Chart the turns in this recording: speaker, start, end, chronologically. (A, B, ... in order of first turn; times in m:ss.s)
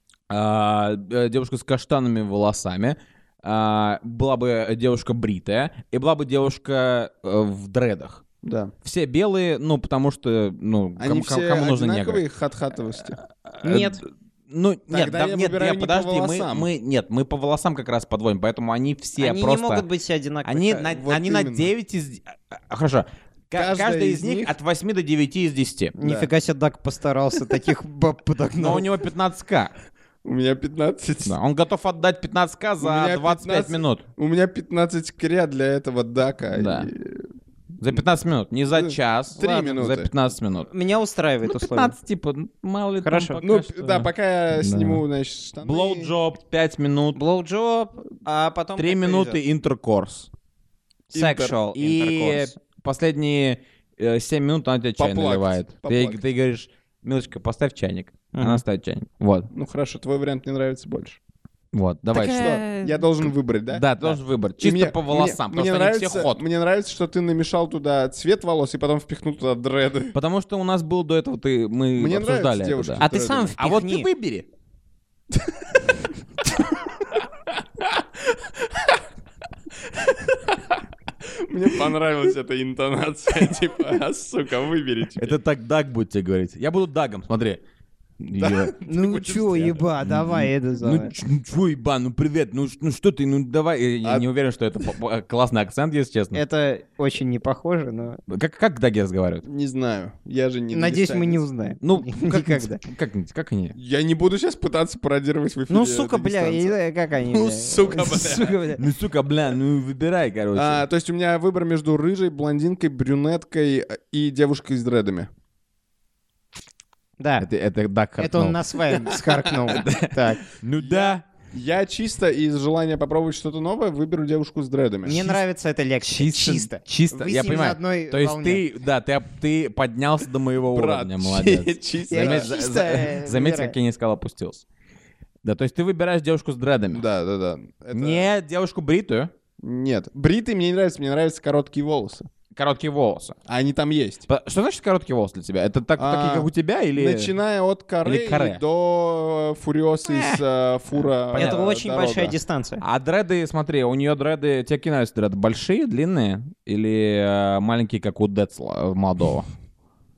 0:00.3-0:08.2 A
0:08.4-0:08.7 B
0:08.8-0:12.2 A
0:11.0-0:13.2 B
0:13.4-0:19.8 A
0:13.6-0:14.0 C
0:14.9-0:16.7 B
0:19.2-0:20.9 C
0:20.4-0:26.0 A
0:20.9-0:21.7 B
0:23.5-0:24.6 B
0:26.0-0:28.8 C
0:26.0-0:26.3 B
0:28.6-0:29.7 A
0:30.2-0:31.4 B
0:31.2-0:34.0 A
0:32.8-0:37.3 B
0:36.5-0:36.9 A
0:37.8-0:40.7 A
0:38.7-0:40.1 B
0:40.7-0:41.9 C
0:41.4-0:45.0 A
0:43.0-0:43.4 C
0:43.4-0:46.1 B
0:45.6-0:47.2 A
0:47.1-0:49.4 C
0:48.8-0:50.3 A
0:51.1-0:51.6 B
0:51.1-0:52.6 C
0:51.7-0:59.5 A
0:55.0-0:56.2 B
0:58.3-0:58.6 C
0:59.5-1:01.2 B
1:01.7-1:03.0 A
1:02.1-1:10.2 B
1:02.4-1:02.8 C
1:03.7-1:06.4 A
1:10.1-1:13.0 A
1:12.0-1:13.5 B
1:13.0-1:14.1 C
1:13.6-1:14.5 A
1:18.3-1:18.9 B
1:19.9-1:25.4 B
1:25.2-1:27.6 A
1:28.2-1:28.8 A
1:28.4-1:29.8 B
1:28.8-1:31.1 C
1:30.0-1:36.4 A
1:36.3-1:38.2 C
1:38.3-1:39.4 A
1:39.4-1:41.4 B
1:40.7-1:42.8 C
1:41.8-1:43.7 A
1:43.7-1:48.6 B
1:45.7-1:48.8 C
1:48.7-1:50.8 A
1:50.5-1:55.3 B
1:57.2-1:57.5 C
1:57.4-2:01.2 A
1:58.2-2:00.4 C
2:00.8-2:05.3 B
2:05.0-2:08.6 C
2:06.0-2:14.6 A
2:10.7-2:12.5 B
2:12.1-2:13.7 C
2:15.4-2:17.0 A
2:16.9-2:18.3 B
2:17.9-2:19.3 A
2:19.6-2:22.3 B
2:22.5-2:23.4 A
2:23.5-2:24.2 B
2:24.3-2:27.3 A
2:26.0-2:32.4 B
2:28.0-2:28.6 A
2:30.0-2:30.4 A
2:31.3-2:31.6 A
2:31.3-2:32.8 C
2:32.8-2:39.5 A